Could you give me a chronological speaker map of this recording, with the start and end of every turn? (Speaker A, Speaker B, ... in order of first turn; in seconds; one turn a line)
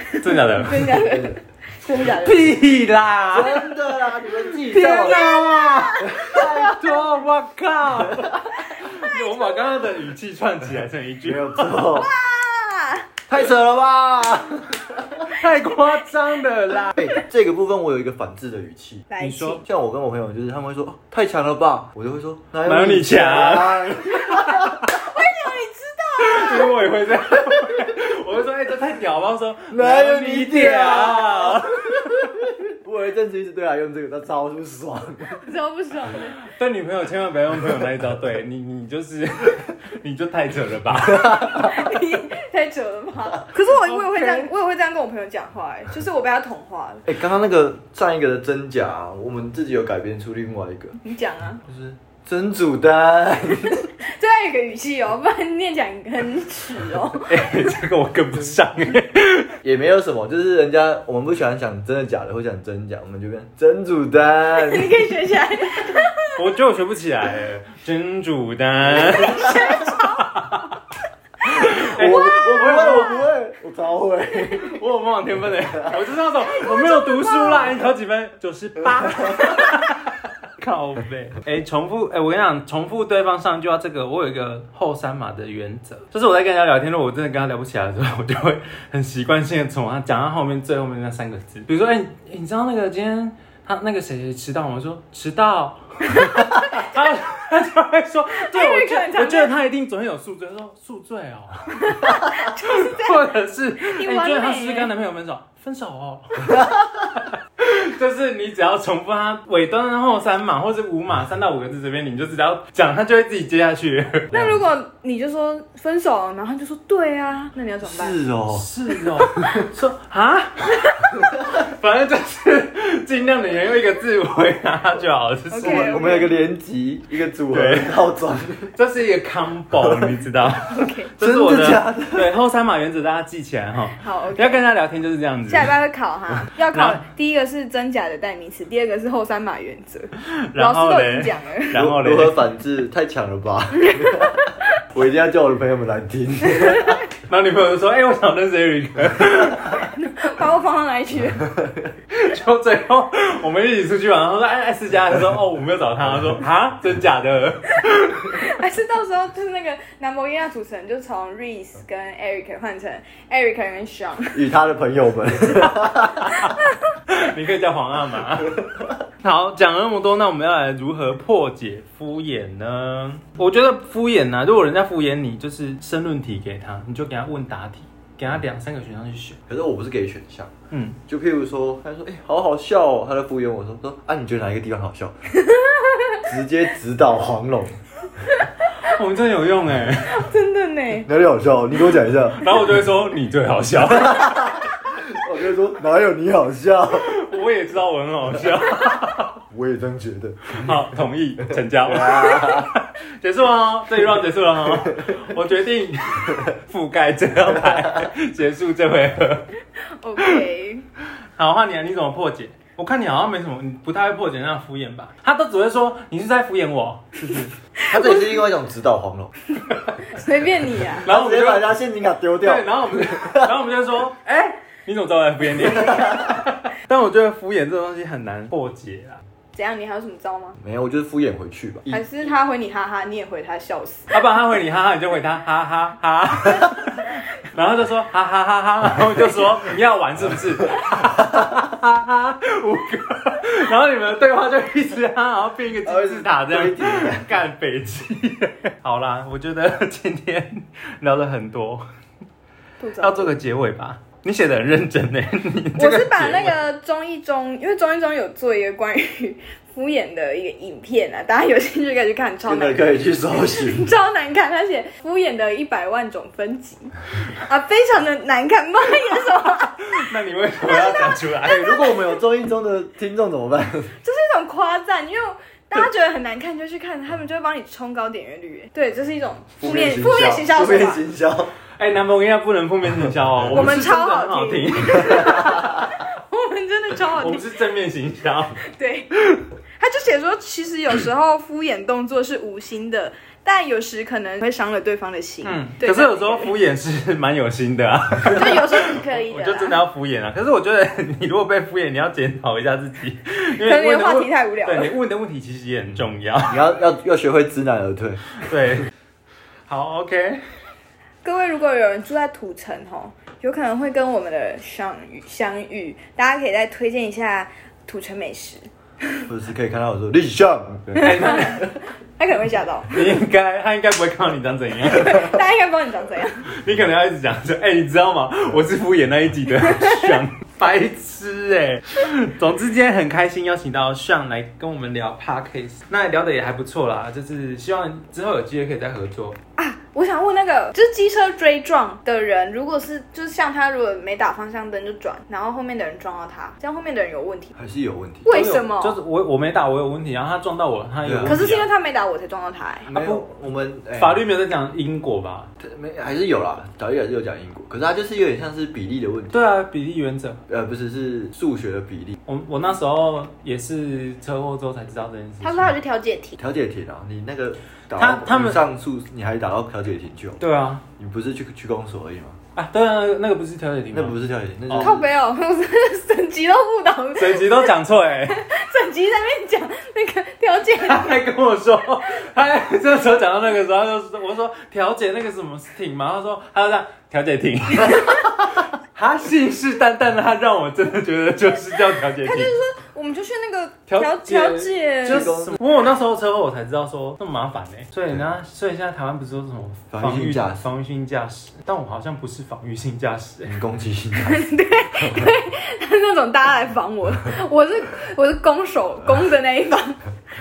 Speaker A: 0.1-2.5
Speaker B: 0.2-0.9
Speaker C: 0.8-1.4
Speaker B: 2.1-3.6
Speaker C: 3.3-5.3
Speaker B: 4.7-11.8
Speaker A: 4.7-6.5
Speaker C: 6.0-6.8
Speaker A: 8.8-9.7
Speaker C: 11.2-12.1
Speaker A: 11.9-13.1
Speaker C: 13.3-15.2
Speaker B: 15.3-17.1
Speaker C: 17.0-19.1
Speaker A: 19.1-19.6
Speaker B: 19.2-19.6
Speaker C: 19.6-24.8
Speaker B: 22.6-24.9
Speaker A: 24.9-26.8
Speaker B: 26.2-32.2
Speaker C: 29.7-35.4
Speaker A: 35.4-36.4
Speaker B: 36.4-41.7
Speaker A: 41.5-47.0
Speaker B: 43.7-44.5
Speaker C: 47.1-51.0
Speaker A: 51.0-51.6
Speaker C: 51.6-53.9
Speaker A: 53.7-57.4
Speaker B: 57.3-59.5
Speaker C: 59.6-65.0
Speaker A: 64.5-66.3
Speaker B: 66.3-70.8
Speaker C: 68.9-69.6
Speaker A: 69.1-70.2
Speaker B: 71.5-73.2
Speaker C: 71.7-74.8
Speaker A: 72.0-73.3
Speaker B: 74.6-114.4
Speaker A: 76.5-77.8
Speaker A: 96.1-97.2
Speaker A: 98.4-99.5
Speaker A: 101.8-103.2
Speaker A: 103.8-104.9
Speaker A: 114.3-118.2
Speaker C: 117.8-118.7
Speaker B: 118.5-126.1
Speaker A: 125.5-126.3
Speaker C: 125.6-128.7
Speaker B: 127.5-128.0
Speaker B: 128.8-135.7
Speaker C: 129.8-130.2
Speaker A: 130.7-131.1
Speaker C: 131.2-132.3
Speaker A: 134.0-134.7
Speaker A: 135.5-141.8
Speaker B: 136.7-137.0
Speaker B: 140.3-142.4
Speaker C: 141.7-144.4
Speaker A: 143.7-144.7
Speaker C: 144.9-147.0
Speaker A: 146.5-147.0
Speaker B: 147.3-149.7
Speaker A: 149.9-151.5
Speaker C: 151.5-151.9
Speaker B: 152.1-158.4
Speaker A: 158.3-164.4
Speaker C: 164.3-166.5
Speaker B: 166.3-166.6
Speaker B: 167.1-168.6
Speaker C: 168.6-168.9
Speaker B: 169.2-179.4
Speaker C: 179.5-180.5
Speaker B: 180.7-181.0
Speaker C: 181.1-185.2
Speaker A: 185.4-186.2
Speaker C: 186.2-187.8
Speaker B: 188.8-190.3
Speaker A: 190.1-191.1
Speaker C: 191.1-192.4
Speaker B: 192.4-194.4
Speaker C: 193.9-197.1
Speaker B: 196.9-199.4
Speaker C: 199.5-200.7
Speaker B: 200.5-209.5
Speaker C: 201.5-202.7
Speaker A: 210.0-210.8
Speaker B: 211.4-217.5
Speaker A: 217.8-218.4
Speaker C: 217.9-219.3
Speaker A: 220.1-221.1
Speaker B: 221.0-221.7
Speaker C: 221.0-223.5
Speaker B: 222.4-224.3
Speaker A: 224.3-224.5
Speaker B: 224.9-229.2
Speaker C: 225.9-226.3
Speaker A: 229.5-230.6
Speaker C: 230.6-232.1
Speaker A: 231.9-234.1
Speaker B: 234.1-251.8
Speaker C: 245.8-247.3
Speaker A: 252.8-253.3
Speaker B: 253.0-256.6
Speaker A: 255.8-270.1
Speaker C: 262.5-263.9
Speaker B: 269.8-271.7
Speaker A: 270.6-272.2
Speaker C: 271.5-273.9
Speaker A: 274.0-281.0
Speaker C: 279.6-281.5
Speaker B: 281.8-285.8
Speaker A: 283.5-287.5
Speaker C: 285.4-285.7
Speaker B: 287.1-288.6
Speaker A: 288.7-289.1
Speaker A: 289.8-296.6
Speaker B: 295.4-306.6
Speaker A: 298.2-299.8
Speaker A: 303.6-304.9
Speaker C: 306.5-308.2
Speaker B: 308.4-308.9
Speaker B: 309.7-310.4
Speaker A: 311.2-319.2
Speaker C: 319.3-321.1
Speaker B: 320.9-321.7
Speaker A: 321.0-323.1
Speaker B: 322.9-325.3
Speaker A: 324.9-326.5
Speaker B: 326.6-339.4
Speaker A: 329.7-330.1
Speaker A: 339.6-347.5
Speaker C: 347.6-348.3
Speaker A: 348.2-349.0
Speaker B: 348.3-351.7
Speaker C: 351.0-351.4
Speaker A: 351.2-352.9
Speaker C: 352.9-354.2
Speaker B: 352.9-353.2
Speaker B: 354.0-355.5
Speaker C: 355.6-359.4
Speaker B: 359.3-360.4
Speaker C: 360.5-362.2
Speaker B: 362.3-365.8
Speaker A: 365.4-366.4
Speaker C: 366.4-370.4
Speaker B: 368.0-368.6
Speaker B: 370.4-370.8
Speaker C: 371.0-372.4
Speaker B: 372.6-374.2
Speaker C: 373.9-375.1
Speaker B: 374.7-374.9
Speaker A: 374.8-377.8
Speaker B: 377.2-378.4
Speaker A: 378.3-381.2
Speaker B: 380.8-392.5
Speaker A: 392.2-395.3
Speaker B: 393.9-403.6
Speaker C: 395.1-395.6
Speaker C: 399.9-400.7
Speaker C: 403.5-404.4
Speaker A: 404.2-410.0
Speaker C: 405.0-405.2